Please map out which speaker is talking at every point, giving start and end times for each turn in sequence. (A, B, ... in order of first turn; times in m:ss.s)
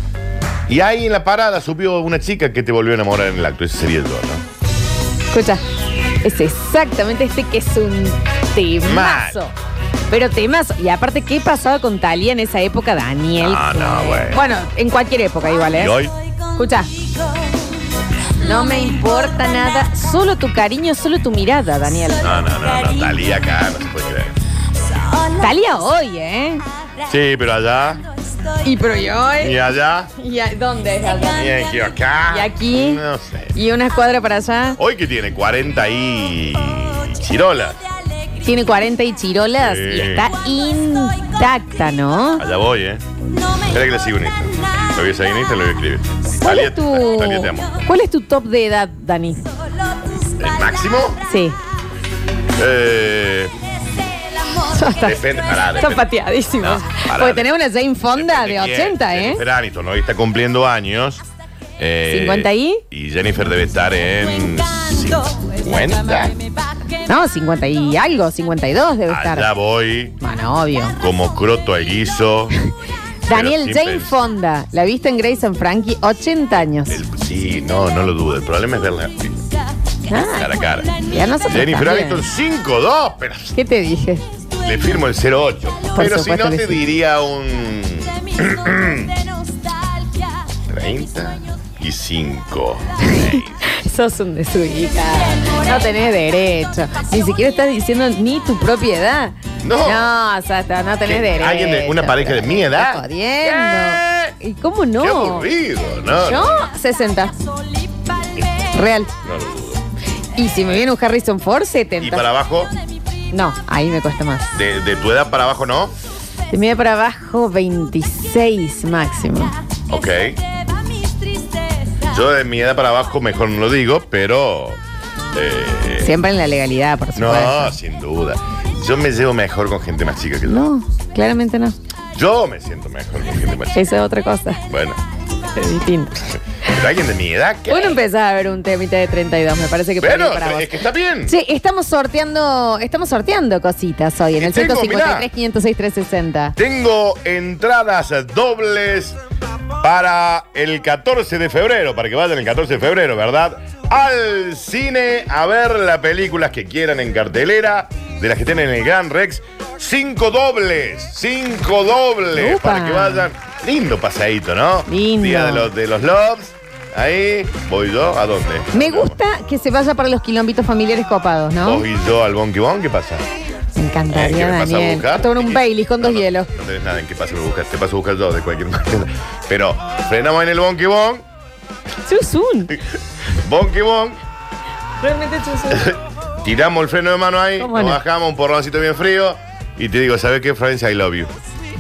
0:00.7-0:04.4 A
0:05.3-0:05.6 B
0:06.2-0:09.5 B
0:08.8-0:09.4 A
0:10.1-0:16.0 B
0:13.4-0:14.4 A
0:15.8-0:16.1 A
0:16.6-0:16.9 B
0:18.4-0:22.3 B
0:22.2-0:24.4 A
0:25.4-0:26.6 B
0:27.0-0:28.0 A
0:28.6-0:29.6 B
0:29.4-0:30.1 A
0:30.2-0:31.4 B
0:31.3-0:33.5 A
0:32.3-0:33.0 B
0:33.6-0:34.8 B
0:34.8-0:37.8 A
0:38.4-0:42.4 B
0:39.6-0:40.3 A
0:42.4-0:43.0 A
0:43.7-0:47.8 A
0:46.4-0:49.5 B
0:50.4-0:51.2 A
0:51.3-0:51.6 B
0:52.6-0:53.5 A
0:54.7-0:55.2 B
0:55.0-0:56.1 A
0:55.8-0:59.4 B
0:56.6-0:57.5 A
0:58.1-1:01.2 A
1:01.8-1:06.4 A
1:02.1-1:02.8 B
1:07.0-1:09.5 B
1:09.1-1:10.2 A
1:10.2-1:11.0 B
1:11.0-1:12.5 A
1:13.3-1:17.0 B
1:13.3-1:14.2 A
1:16.9-1:19.4 A
1:20.1-1:20.5 B
1:20.4-1:23.6 A
1:21.0-1:22.2 B
1:23.5-1:24.2 B
1:24.6-1:29.1 A
1:26.0-1:26.8 B
1:30.7-1:33.7 A
1:33.2-1:45.5 B
1:39.6-1:40.1 A
1:41.1-1:44.3 A
1:45.0-1:46.7 A
1:46.2-1:47.4 B
1:48.7-1:49.1 B
1:49.2-1:49.8 A
1:50.4-1:52.2 B
1:52.0-1:52.7 A
1:53.3-1:54.5 B
1:54.5-1:55.9 A
1:56.5-1:59.5 B
1:59.9-2:00.4 A
2:02.1-2:04.8 A
2:05.3-2:06.2 A
2:06.0-2:07.7 B
2:07.2-2:10.7 A
2:10.5-2:11.8 B
2:12.2-2:13.9 A
2:13.7-2:14.6 B
2:14.7-2:15.0 A
2:15.6-2:16.2 B
2:16.2-2:18.0 A
2:17.7-2:20.7 B
2:20.0-2:21.4 A
2:21.3-2:26.6 B
2:24.4-2:25.3 A
2:26.6-2:29.2 A
2:29.8-2:49.2 A
2:42.4-2:43.3 B
2:44.9-2:45.7 B
2:48.7-2:51.8 B
2:51.6-2:53.2 A
2:53.8-2:56.5 B
2:54.1-3:01.2 A
3:02.1-3:02.7 B
3:03.4-3:04.2 A
3:05.0-3:05.9 B
3:05.7-3:11.3 A
3:07.6-3:08.0 B